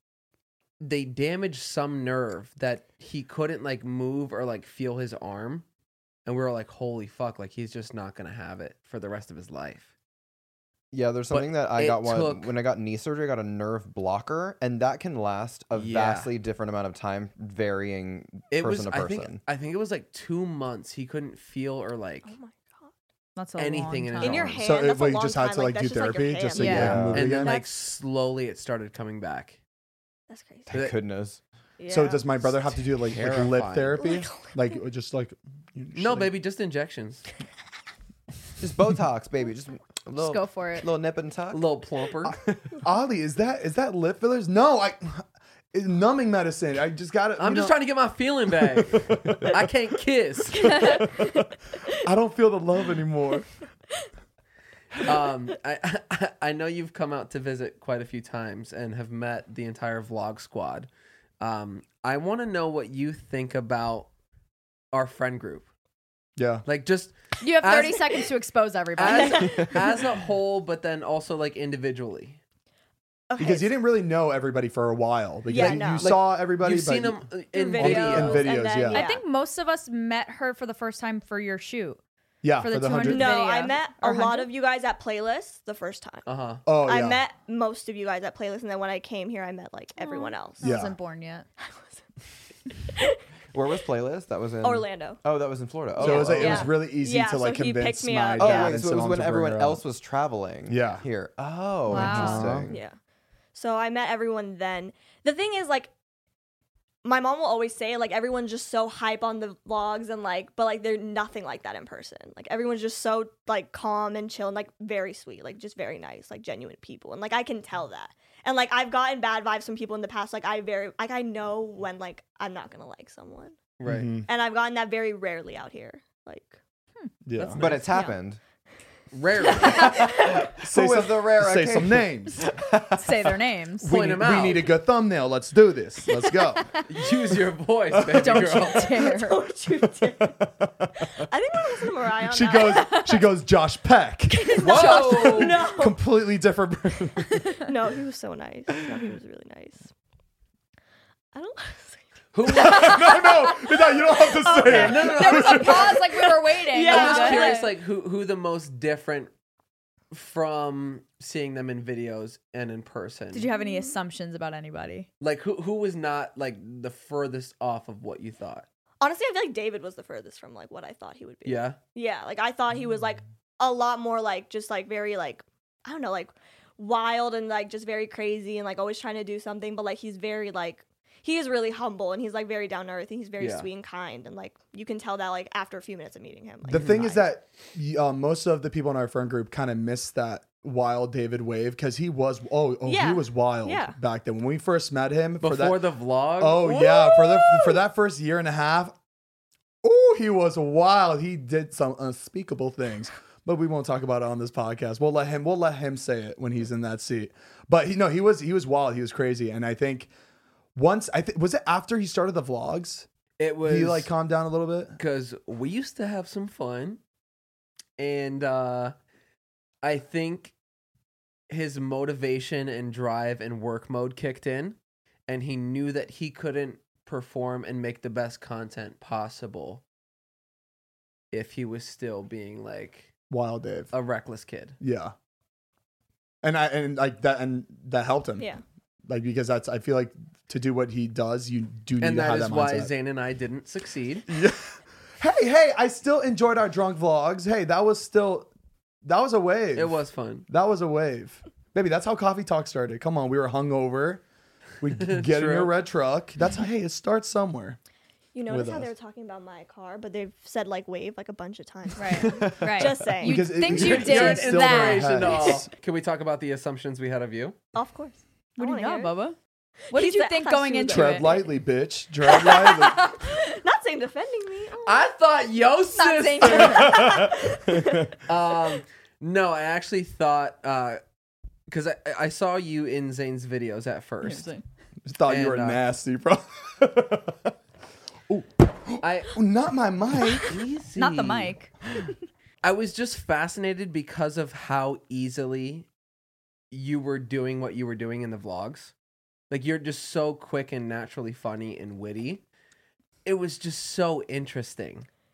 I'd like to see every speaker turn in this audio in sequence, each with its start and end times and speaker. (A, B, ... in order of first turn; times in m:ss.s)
0:00.8-0:05.6 A
0:06.2-0:09.9 A
0:10.9-0:19.4 B
0:11.3-0:12.5 A
0:15.8-0:16.3 A
0:18.5-0:22.4 A
0:22.2-0:22.9 C
0:23.4-0:24.6 D
0:23.6-0:24.6 A
0:24.2-0:27.7 C
0:24.6-0:27.6 E
0:26.6-0:26.9 D
0:26.7-0:29.6 A
0:26.8-0:27.3 B
0:30.3-0:30.7 C
0:30.7-0:31.4 B
0:31.8-0:32.3 C
0:31.9-0:36.3 E
0:32.9-0:34.0 A
0:34.0-0:34.5 C
0:36.0-0:37.2 A
0:38.6-0:41.7 B
0:40.2-0:40.9 D
0:41.5-0:42.4 A
0:42.2-0:47.8 E
0:47.4-0:51.1 A
0:48.7-0:49.6 E
0:50.6-0:51.5 C
0:52.0-0:53.5 E
0:55.0-1:00.9 A
1:01.4-1:04.1 A
1:04.9-1:05.7 A
1:06.4-1:06.6 E
1:06.6-1:08.2 A
1:07.4-1:09.7 D
1:09.0-1:12.4 A
1:09.1-1:09.9 C
1:13.3-1:13.8 C
1:13.4-1:19.1 E
1:15.5-1:16.1 C
1:16.0-1:18.6 A
1:17.6-1:19.2 C
1:18.9-1:22.0 D
1:22.4-1:23.4 E
1:22.6-1:24.5 D
1:23.0-1:26.3 C
1:26.3-1:26.6 A
1:26.6-1:27.2 E
1:26.8-1:30.6 C
1:30.0-1:31.5 D
1:30.6-1:31.0 E
1:31.6-1:32.0 C
1:33.5-1:36.7 B
1:34.6-1:35.2 C
1:36.0-1:38.8 C
1:36.0-1:39.8 E
1:38.4-1:42.8 B
1:40.7-1:41.0 E
1:41.9-1:42.7 E
1:41.9-1:42.4 D
1:42.7-1:43.0 C
1:43.5-1:45.9 C
1:47.0-2:03.6 C
2:03.8-2:04.1 A
2:03.9-2:04.3 E
2:04.3-2:06.6 C
2:07.3-2:07.6 E
2:07.4-2:07.9 A
2:07.6-2:08.4 B
2:09.1-2:10.1 A
2:09.6-2:10.5 C
2:09.9-2:13.3 B
2:10.5-2:12.5 E
2:12.9-2:13.9 D
2:13.8-2:14.7 A
2:13.8-2:16.7 E
2:16.6-2:16.8 D
2:16.9-2:19.0 A
2:17.9-2:18.7 E
2:18.1-2:19.4 D
2:18.9-2:20.4 C
2:19.9-2:21.1 E
2:21.1-2:23.1 C
2:22.3-2:27.5 E
2:22.6-2:23.1 D
2:24.5-2:26.0 C
2:24.5-2:25.5 D
2:24.6-2:25.7 A
2:27.6-2:29.9 C
2:31.3-2:37.7 C
2:32.3-2:33.1 A
2:32.5-2:36.0 E
2:34.6-2:36.0 A
2:35.2-2:37.7 D
2:36.9-2:39.3 A
2:40.1-2:43.5 A
2:43.3-2:45.1 D
2:43.5-2:43.9 C
2:45.2-2:48.7 A
2:49.0-3:07.3 C
2:51.4-2:51.8 A
3:03.4-3:03.7 A
3:06.7-3:15.8 E
3:06.7-3:07.0 A
3:12.8-3:14.0 C
3:15.4-3:16.8 A
3:16.4-3:19.0 E
3:16.7-3:17.8 C
3:19.8-3:30.1 E
3:30.8-3:33.1 E
3:33.4-3:34.1 A
3:33.6-3:35.0 E
3:35.0-3:37.0 A
3:38.0-3:38.9 A
3:39.8-3:40.5 A
3:41.5-3:44.8 A
3:45.3-3:49.8 A
3:51.3-3:53.1 A
3:53.3-3:53.9 E
3:53.9-3:54.8 A
3:54.8-3:55.1 E
3:56.4-3:58.5 E
3:59.1-4:02.9 E
4:02.0-4:04.3 A
4:04.3-4:08.5 E
4:09.0-4:14.2 E
4:09.8-4:10.5 A
4:14.8-4:17.8 E
4:15.0-4:15.7 A
4:18.3-4:23.5 C
4:18.5-4:18.9 E
4:22.0-4:25.4 D
4:23.2-4:25.7 E
4:23.6-4:27.6 A
4:27.7-4:29.2 C
4:28.6-4:29.4 D
4:29.9-4:31.3 D
4:29.9-4:31.5 C
4:30.9-4:33.1 E
4:32.3-4:35.0 C
4:32.5-4:33.4 D
4:34.9-4:37.1 A
4:36.0-4:37.2 D
4:36.6-4:38.1 E
4:36.8-4:38.1 C
4:38.2-4:41.0 A
4:41.7-4:44.5 A
4:44.2-4:44.6 D
4:45.0-4:47.5 E
4:45.3-4:45.8 A
4:48.3-4:50.6 E
4:49.0-4:49.4 A
4:50.4-4:51.6 A
4:51.0-4:51.7 D
4:52.6-4:55.9 A
4:56.7-4:58.9 A
4:59.5-5:02.4 A
5:03.2-5:05.1 A